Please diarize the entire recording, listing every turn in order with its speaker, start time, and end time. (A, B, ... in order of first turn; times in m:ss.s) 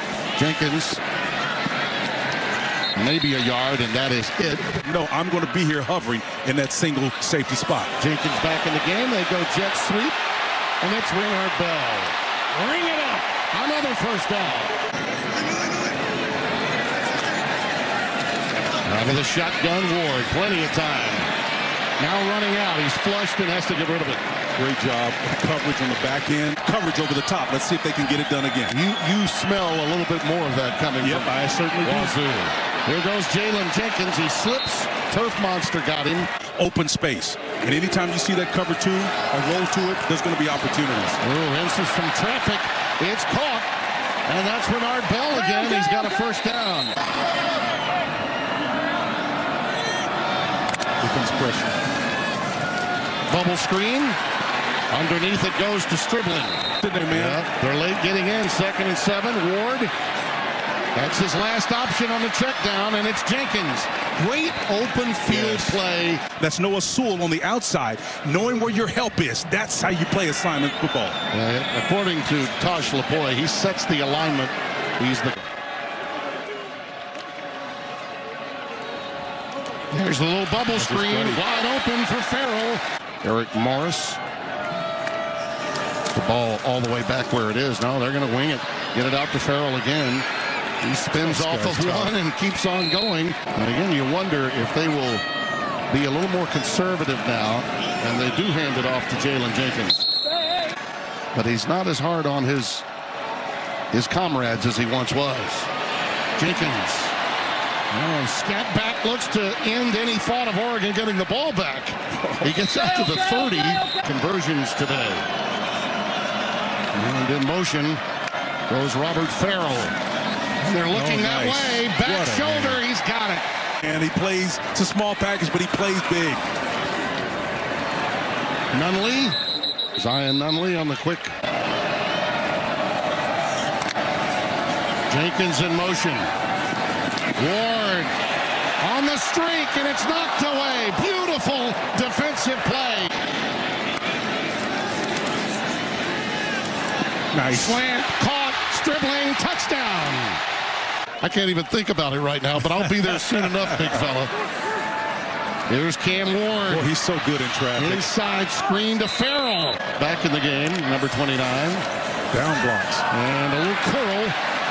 0:00.4-0:01.0 A
0:03.0-0:04.8 A
0:04.8-0:07.9 B
0:08.0-0:10.2 A
0:10.8-0:14.8 A
0:18.8-0:21.3 A
0:22.0-0:24.2 A
0:24.6-0:28.8 B
0:28.7-0:36.3 A
0:31.0-0:32.2 B
0:36.6-0:41.2 B
0:41.2-0:43.7 A
0:44.3-0:47.0 A
0:51.0-0:51.8 B
0:53.3-0:54.2 A
0:54.9-0:59.9 A
0:56.8-0:57.4 B
1:00.9-1:06.2 A
1:05.2-1:05.8 B
1:06.4-1:11.2 B
1:11.3-1:15.4 A
1:19.9-1:24.2 A
1:20.7-1:21.4 B
1:26.1-1:30.2 A
1:30.8-1:32.2 B
1:31.0-1:35.2 A
1:35.9-1:40.0 A
1:41.3-1:42.8 A
1:43.9-1:45.7 A
1:46.4-1:47.2 A
1:47.9-1:55.2 A
1:52.2-1:52.7 B
1:56.9-1:58.0 A
1:58.7-1:59.9 A
2:00.6-2:03.4 A
2:00.8-2:02.8 B
2:03.8-2:06.4 B
2:08.7-2:09.4 A
2:10.0-2:11.3 A
2:15.1-2:16.3 A
2:17.4-2:18.1 A
2:18.8-2:23.2 A
2:27.3-2:27.8 B
2:27.5-2:30.4 A
2:31.2-2:34.3 A
2:32.8-2:34.0 B
2:35.7-2:36.9 A
2:36.7-2:38.1 B
2:37.8-2:41.8 A
2:42.3-2:43.0 B
2:43.1-2:44.4 A